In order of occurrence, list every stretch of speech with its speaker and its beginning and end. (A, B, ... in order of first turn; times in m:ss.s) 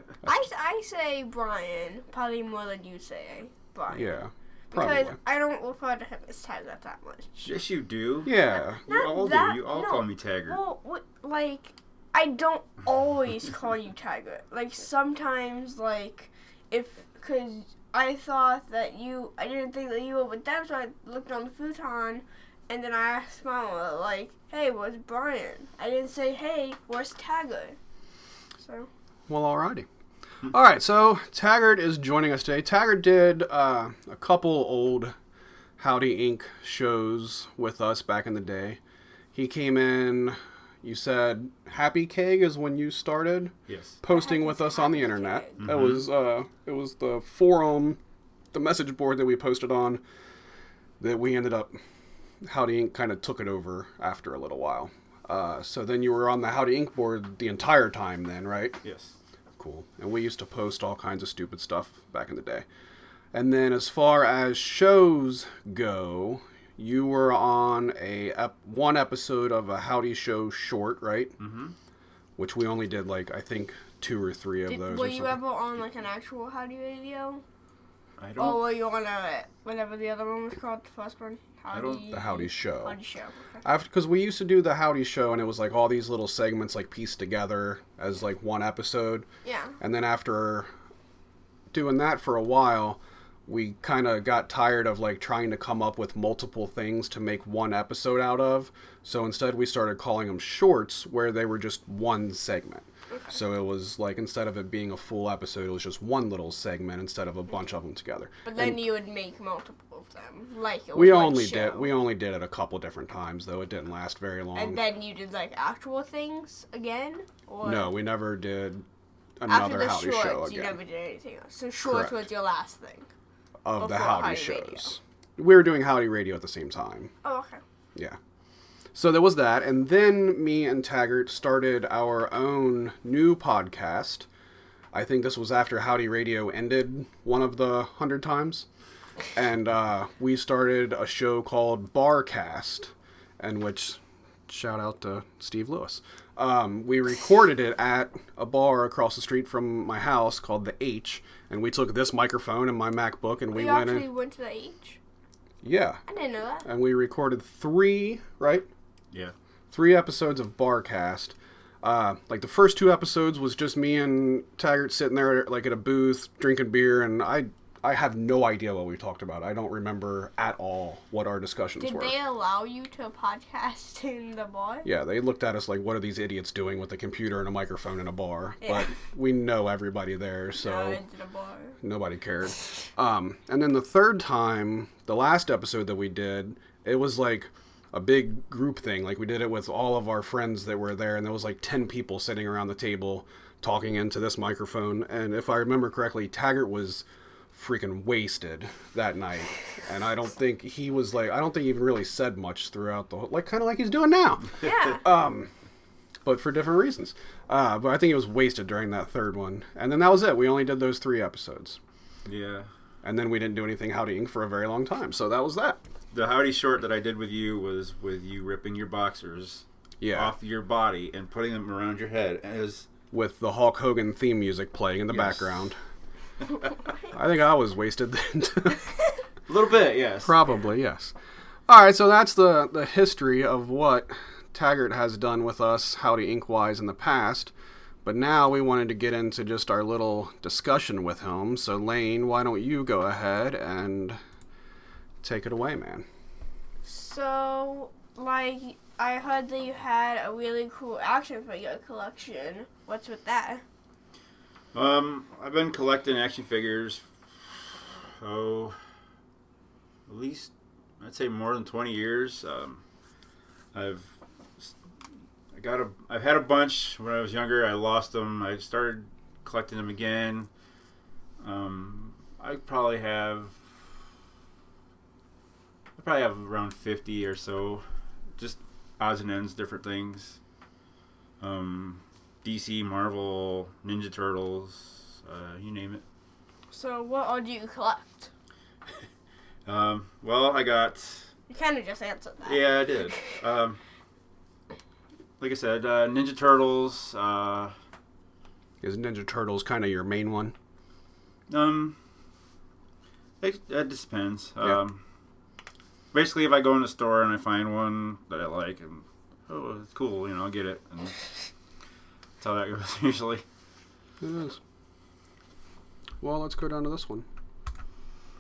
0:00.3-0:04.2 A
0:03.9-0:05.2 B
0:04.7-0:07.5 A
0:07.4-0:10.6 C
0:08.2-0:08.8 B
0:08.9-0:27.8 A
0:28.6-0:28.9 A
0:29.3-0:29.9 B
0:30.5-0:35.2 B
0:35.8-0:38.8 B
0:39.3-0:48.0 B
0:43.7-0:44.0 C
0:44.1-0:45.6 A
0:45.6-0:46.0 C
0:48.5-0:50.0 B
0:51.0-0:51.8 B
0:52.4-0:58.8 B
0:58.8-0:59.2 C
0:59.6-1:02.6 B
1:03.3-1:11.4 B
1:11.4-1:11.8 C
1:12.4-1:15.4 B
1:14.7-1:17.4 A
1:18.2-1:18.7 C
1:18.4-1:23.6 A
1:21.7-1:22.1 C
1:22.1-1:23.0 B
1:23.6-1:29.3 B
1:29.4-1:29.8 A
1:29.8-1:30.7 B
1:31.7-1:48.8 B
1:43.1-1:43.4 A
1:48.4-1:52.0 A
1:51.0-1:54.8 B
1:54.6-1:57.9 A
1:57.6-1:58.8 B
1:59.4-2:00.8 B
1:59.5-2:03.1 A
2:01.8-2:02.2 B
2:03.6-2:07.1 B
2:03.8-2:04.9 A
2:07.2-2:07.6 A
2:08.9-2:14.3 B
2:14.9-2:18.7 B
2:19.4-2:34.1 B
2:33.5-2:35.0 A
2:35.6-2:36.0 B
2:36.1-2:36.7 A
2:36.6-2:38.7 B
2:39.7-2:52.2 B
2:51.8-2:54.9 A
2:54.8-3:01.0 B
2:58.6-2:58.9 A
3:00.6-3:01.8 A
3:01.8-3:25.5 B
3:24.6-3:25.0 A
3:26.2-3:31.8 B
3:32.3-3:32.7 C
3:33.0-3:35.8 B
3:36.1-3:42.9 C
3:40.0-3:40.3 B
3:43.1-3:45.8 B
3:45.1-3:45.4 C
3:47.1-3:48.9 B
3:49.5-3:50.4 C
3:50.2-3:51.1 B
3:51.7-3:57.5 B
3:58.0-4:04.2 B
4:05.2-4:06.1 B
4:06.8-4:13.6 A
4:14.7-4:18.8 C
4:20.1-4:22.8 C
4:23.7-4:24.7 C
4:25.5-4:30.5 C
4:31.4-4:33.6 C
4:36.0-4:37.8 C
4:38.4-4:40.4 C
4:41.4-4:46.0 C
4:46.7-4:48.3 A
4:49.7-4:51.3 C
4:51.5-4:53.2 A
4:52.5-4:53.8 C
4:55.4-4:57.7 C
4:58.8-5:00.6 B
5:01.5-5:02.0 C
5:03.4-5:05.0 C
5:06.1-5:11.2 C
5:12.4-5:13.4 C
5:14.2-5:14.6 B
5:16.2-5:17.3 B